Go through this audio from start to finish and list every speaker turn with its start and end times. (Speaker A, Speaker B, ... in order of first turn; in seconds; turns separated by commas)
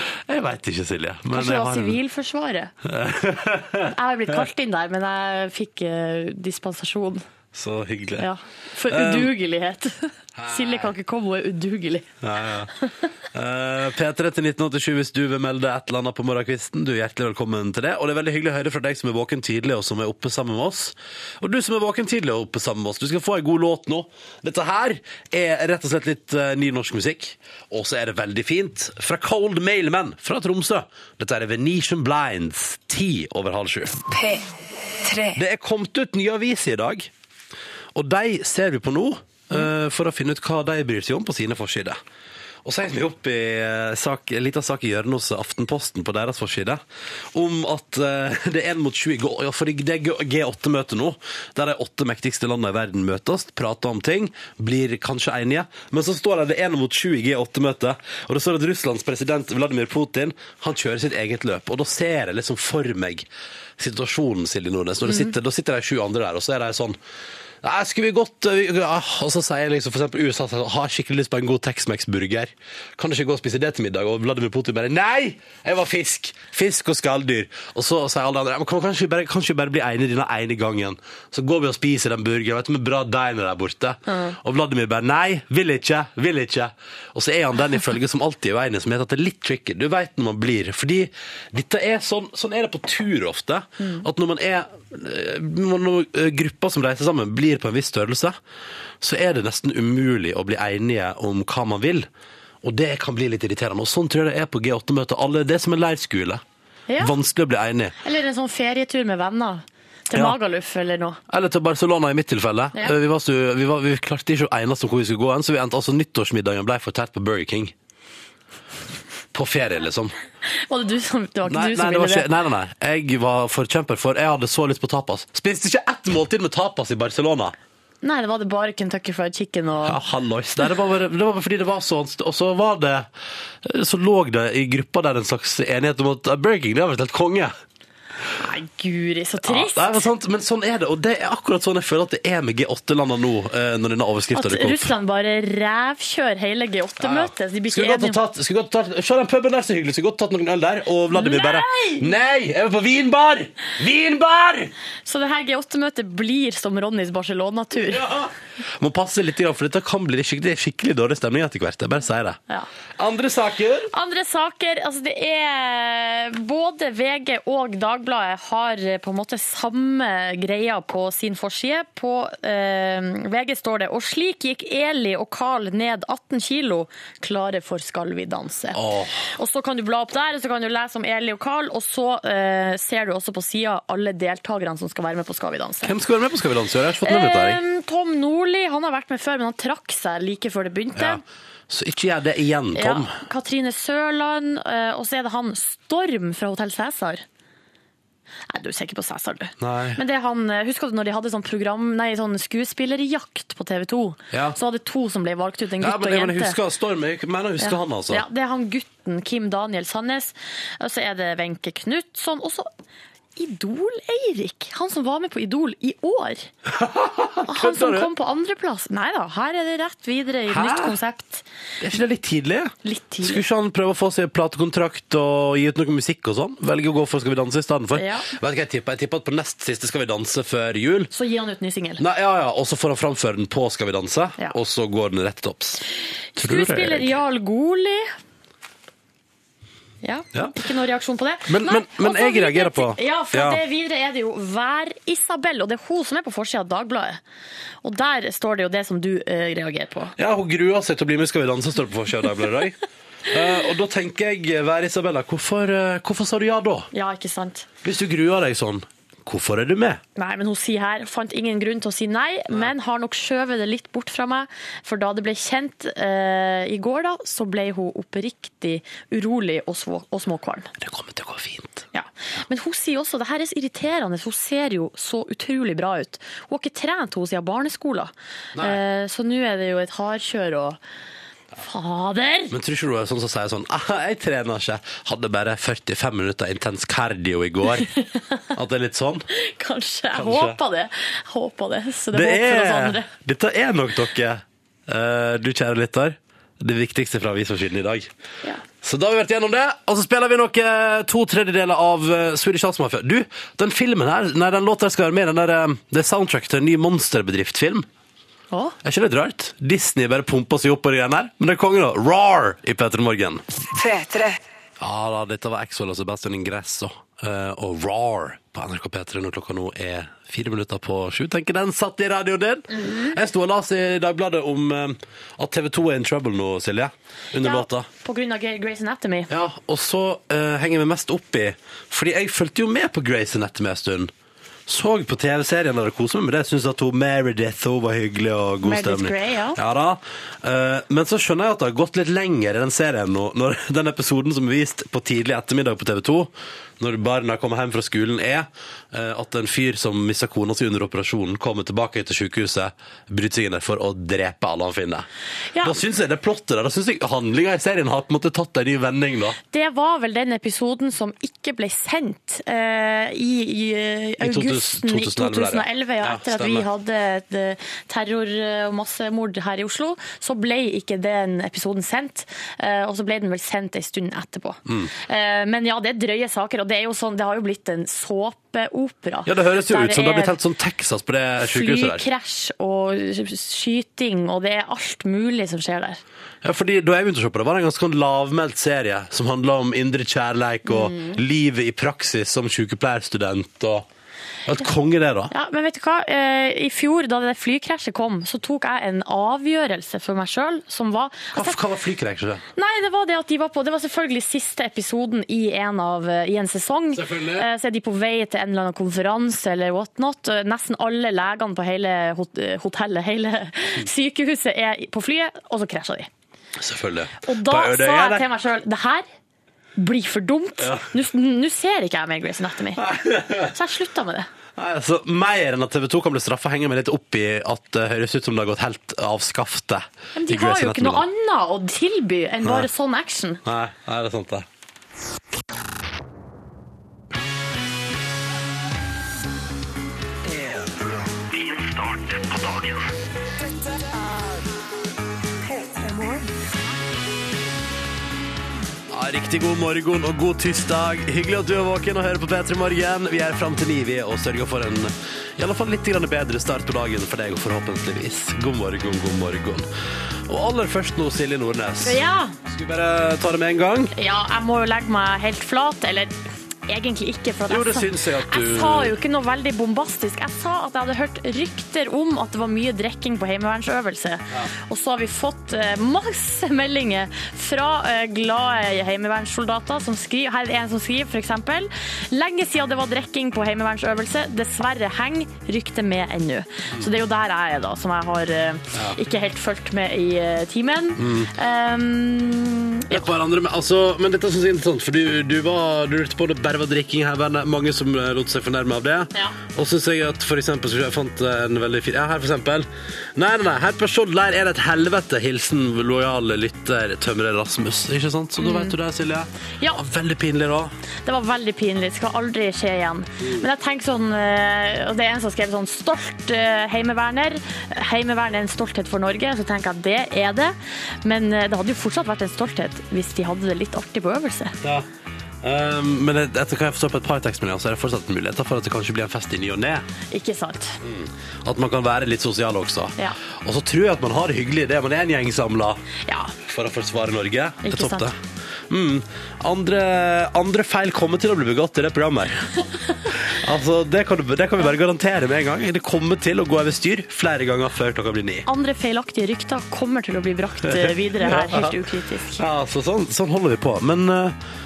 Speaker A: 0.3-2.0, Speaker B: 1.3-2.7, Speaker A: 2.9-4.4, Speaker B: 3.9-7.2, Speaker A: 7.5-8.3, Speaker B: 8.2-12.2, Speaker A: 8.9-9.3, Speaker A: 10.3-10.9, Speaker A: 12.2-12.7, Speaker B: 12.7-13.1, Speaker A: 13.3-34.0, Speaker C: 34.1-35.4, Speaker A: 35.3-37.1, Speaker A: 37.9-42.0, Speaker A: 42.6-46.8, Speaker A: 47.3-63.2, Speaker A: 63.8-67.0, Speaker B: 65.0-65.3, Speaker A: 67.6-98.4, Speaker B: 84.1-84.3, Speaker B: 93.8-94.0, Speaker A: 99.0-102.1, Speaker A: 102.6-106.4, Speaker B: 106.9-107.1, Speaker A: 107.0-107.9, Speaker B: 108.0-111.2, Speaker A: 111.3-117.7, Speaker A: 119.3-120.1, Speaker B: 120.5-122.3, Speaker A: 121.5-127.5, Speaker B: 128.0-130.0, Speaker A: 129.8-133.1, Speaker A: 133.6-137.5, Speaker B: 138.4-140.1, Speaker A: 139.4-144.9, Speaker B: 144.3-148.2, Speaker A: 147.0-154.7, Speaker B: 151.1-152.1, Speaker B: 155.0-158.1, Speaker A: 157.9-162.4, Speaker A: 162.9-163.9, Speaker B: 163.9-185.9, Speaker A: 178.7-179.3, Speaker A: 185.8-187.6, Speaker B: 187.0-191.2, Speaker A: 190.9-193.2, Speaker B: 192.7-197.2, Speaker B: 198.5-206.6, Speaker A: 199.6-200.0, Speaker A: 204.3-204.6, Speaker A: 205.8-208.2, Speaker B: 207.6-212.7, Speaker B: 213.3-216.5, Speaker A: 216.7-218.1, Speaker B: 217.4-221.4, Speaker A: 220.5-220.9, Speaker A: 221.8-231.1, Speaker B: 222.8-223.4, Speaker B: 227.9-228.3, Speaker B: 231.1-232.0, Speaker A: 232.0-235.8, Speaker B: 236.3-238.1, Speaker A: 236.4-237.2, Speaker B: 240.0-247.2, Speaker A: 241.5-243.6, Speaker B: 247.8-250.1, Speaker A: 250.2-256.9, Speaker B: 256.9-257.7, Speaker A: 257.8-260.0, Speaker B: 260.1-270.7, Speaker A: 270.8-271.9, Speaker B: 271.9-280.8, Speaker A: 278.6-278.8, Speaker B: 281.6-282.5, Speaker A: 282.5-287.9, Speaker B: 287.8-288.4, Speaker A: 288.5-289.2, Speaker B: 289.3-293.1, Speaker A: 290.1-290.6, Speaker A: 292.1-298.1, Speaker A: 298.8-307.9, Speaker B: 308.5-308.8, Speaker A: 308.8-313.4, Speaker C: 313.7-314.4, Speaker A: 314.8-327.9, Speaker B: 322.8-323.1, Speaker B: 327.4-329.3, Speaker A: 329.3-334.1, Speaker A: 334.7-355.1, Speaker B: 338.6-339.6, Speaker B: 355.5-355.8, Speaker A: 355.6-359.4, Speaker B: 359.5-380.4, Speaker A: 364.2-366.6, Speaker A: 379.2-382.0, Speaker B: 381.4-386.0, Speaker A: 386.4-393.8, Speaker B: 390.6-391.2, Speaker A: 394.4-395.3, Speaker B: 395.3-401.6, Speaker A: 401.3-402.4, Speaker B: 402.6-416.1, Speaker A: 406.9-407.5, Speaker A: 416.6-418.3, Speaker B: 417.2-419.1, Speaker B: 419.8-422.8, Speaker A: 420.6-420.9, Speaker A: 422.8-423.5, Speaker B: 423.4-424.3, Speaker A: 424.6-431.0, Speaker B: 430.1-433.4, Speaker A: 433.4-434.4, Speaker A: 448.9-463.9, Speaker B: 461.8-462.4, Speaker B: 463.9-493.1, Speaker A: 467.5-468.9, Speaker A: 491.0-491.3, Speaker A: 492.9-510.7, Speaker B: 508.4-508.8, Speaker B: 509.6-509.8, Speaker B: 511.0-524.5, Speaker A: 524.6-524.9, Speaker A: 525.4-529.9, Speaker B: 530.1-530.8, Speaker A: 530.8-535.8, Speaker B: 536.0-536.3, Speaker A: 536.5-538.2, Speaker B: 537.6-538.1, Speaker A: 538.7-542.5, Speaker A: 543.1-548.5, Speaker B: 548.5-552.4, Speaker A: 550.7-551.8, Speaker A: 552.3-554.4